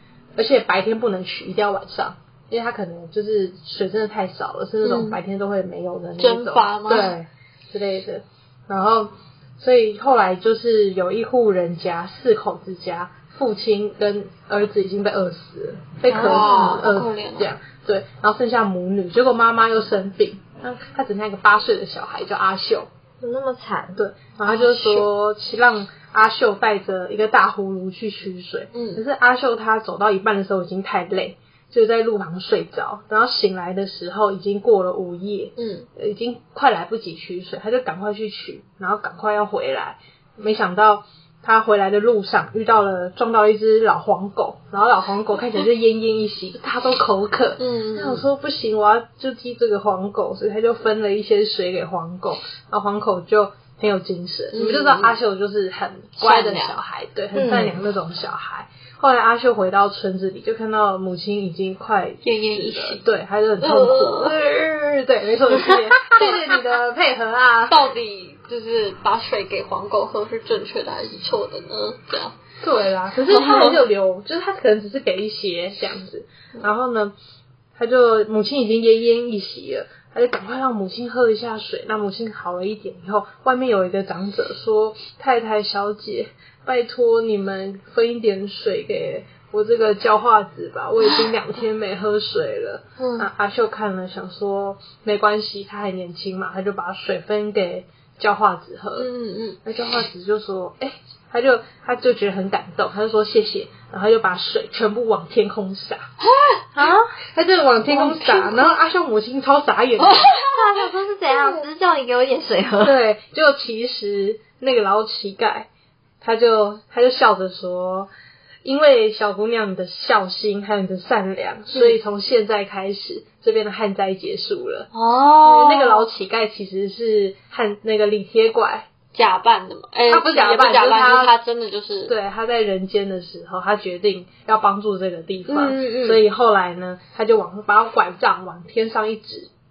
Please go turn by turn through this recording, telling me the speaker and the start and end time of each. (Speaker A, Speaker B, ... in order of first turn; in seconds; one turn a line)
Speaker A: 0.3-22.9
Speaker B: 4.8-5.2
Speaker B: 6.2-7.1
Speaker B: 16.1-17.5
Speaker C: 23.2-24.0
Speaker A: 23.9-67.8
Speaker B: 24.5-25.1
Speaker B: 28.7-29.0
Speaker B: 35.6-35.9
Speaker B: 47.6-48.2
Speaker B: 54.5-55.1
Speaker B: 56.2-56.8
Speaker C: 57.3-57.8
Speaker B: 62.2-63.0
Speaker B: 63.6-64.4
Speaker C: 65.7-66.2
Speaker B: 67.7-72.3
Speaker A: 72.6-77.1
Speaker B: 73.3-73.8
Speaker A: 77.8-99.1
Speaker B: 93.0-93.3
Speaker B: 99.0-99.6
Speaker A: 99.6-106.0
Speaker B: 106.3-106.6
Speaker C: 106.8-107.1
Speaker A: 106.8-110.4
Speaker B: 107.9-108.6
Speaker C: 108.0-108.4
Speaker B: 110.0-110.7
Speaker C: 110.5-113.0
Speaker A: 112.8-115.7
Speaker A: 116.2-118.1
Speaker A: 118.6-124.9
Speaker B: 121.7-122.0
Speaker B: 124.9-126.1
Speaker A: 125.4-128.9
Speaker B: 129.1-132.1
Speaker A: 130.1-131.3
Speaker A: 132.1-139.5
Speaker B: 135.5-136.2